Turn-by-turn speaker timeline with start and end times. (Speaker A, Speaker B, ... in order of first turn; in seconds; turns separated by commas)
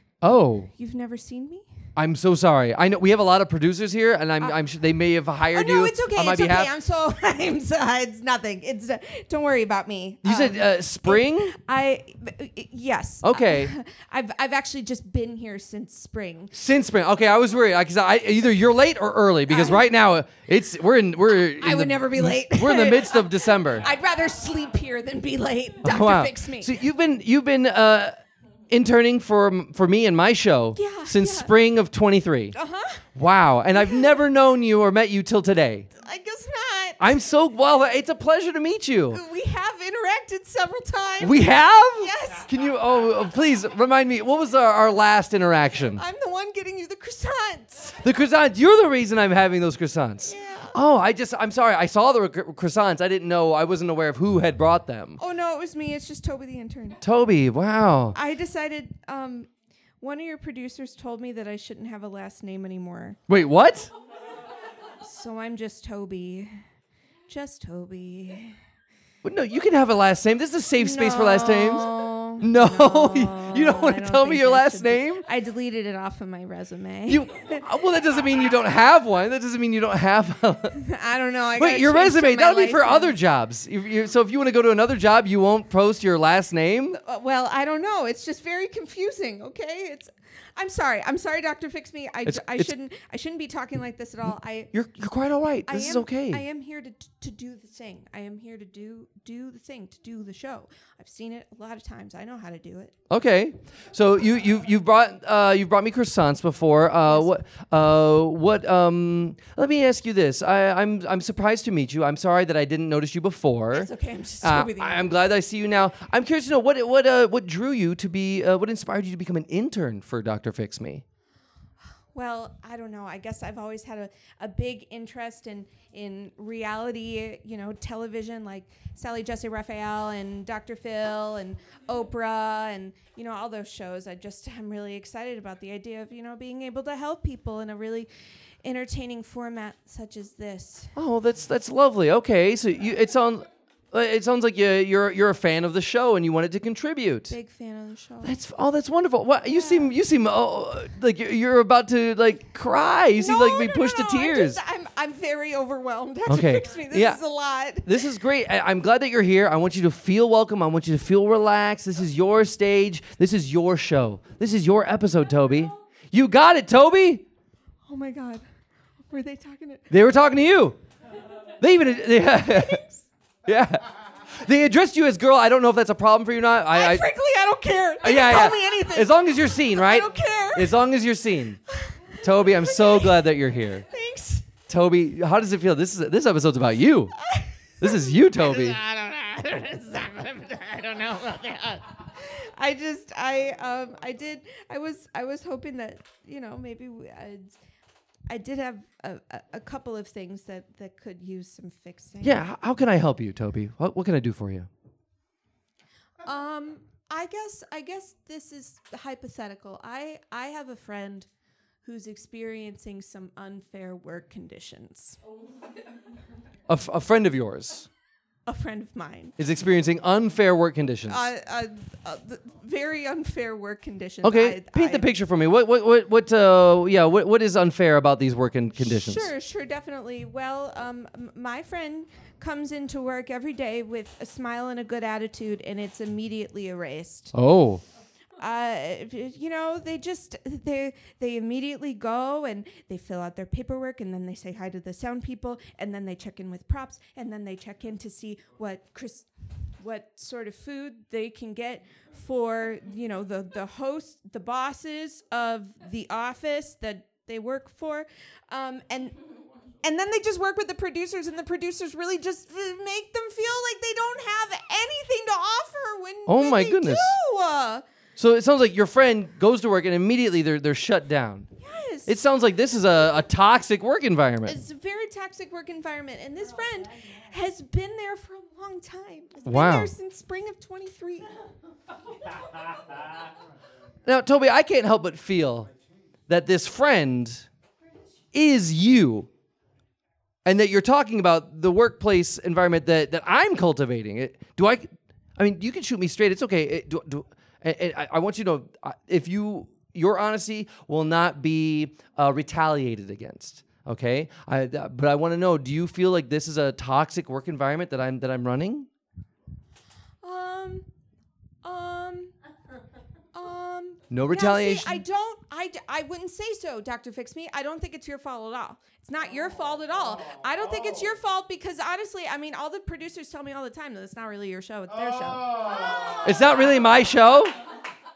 Speaker A: 0.2-0.7, Speaker B: 0.7-1.7, Speaker A: 1.9-6.7, Speaker B: 5.5-16.5, Speaker A: 10.2-11.5, Speaker A: 13.2-13.7, Speaker A: 16.5-23.9, Speaker B: 19.5-19.8, Speaker B: 21.6-26.8, Speaker A: 25.8-28.1, Speaker A: 28.7-32.5, Speaker B: 30.7-31.5, Speaker B: 32.5-33.0, Speaker A: 33.1-35.9, Speaker B: 33.8-34.1, Speaker B: 36.0-37.0, Speaker A: 37.0-39.2, Speaker B: 39.1-42.5, Speaker A: 41.2-46.0, Speaker B: 46.0-48.0, Speaker A: 48.0-55.2, Speaker B: 50.2-50.8, Speaker B: 55.2-57.0, Speaker A: 57.0-58.2, Speaker B: 58.1-59.5, Speaker B: 60.0-63.2, Speaker A: 63.3-63.9, Speaker B: 65.0-66.5, Speaker B: 67.3-68.5, Speaker A: 69.2-71.9, Speaker B: 70.8-77.6, Speaker A: 72.4-75.2, Speaker A: 77.1-80.8, Speaker B: 80.8-83.1, Speaker A: 81.6-87.0, Speaker B: 86.9-94.7, Speaker A: 92.2-92.7, Speaker A: 94.7-96.4, Speaker B: 95.7-102.9, Speaker A: 103.1-113.9, Speaker B: 113.7-115.1, Speaker A: 114.4-121.0, Speaker B: 122.1-138.1, Speaker B: 138.6-140.9, Speaker A: 140.9-147.3, Speaker B: 147.3-148.4, Speaker A: 148.2-154.6, Speaker B: 149.4-149.9, Speaker B: 153.2-158.0, Speaker A: 156.3-157.2, Speaker A: 157.8-167.2, Speaker B: 167.8-168.4, Speaker B: 169.1-169.9, Speaker A: 169.9-170.8, Speaker A: 171.6-172.8, Speaker B: 172.5-173.0, Speaker A: 173.4-177.1, Speaker B: 176.7-180.7, Speaker A: 178.0-181.6, Speaker B: 181.7-183.2, Speaker A: 182.2-183.8, Speaker B: 183.9-184.5, Speaker A: 184.7-187.1, Speaker B: 187.2-197.6, Speaker A: 187.8-188.8, Speaker B: 198.3-202.4, Speaker A: 202.2-204.7, Speaker B: 206.2-211.3, Speaker B: 211.8-215.2, Speaker A: 216.7-217.9, Speaker B: 218.4-219.3, Speaker A: 219.4-221.3, Speaker B: 221.1-225.1, Speaker A: 224.2-229.3, Speaker B: 228.8-237.3, Speaker A: 237.3-237.8, Speaker B: 238.4-249.3, Speaker B: 249.8-259.1, Speaker B: 259.8-267.8, Speaker A: 266.2-267.1, Speaker A: 268.2-271.5, Speaker B: 271.6-272.1, Speaker A: 272.1-274.6, Speaker B: 274.4-281.3, Speaker A: 279.4-279.9, Speaker A: 284.0-285.7, Speaker A: 286.3-287.4, Speaker A: 288.3-289.3, Speaker A: 290.4-308.9, Speaker B: 310.2-310.9, Speaker B: 311.6-312.3, Speaker B: 313.3-326.0, Speaker A: 314.1-315.0, Speaker A: 326.2-327.5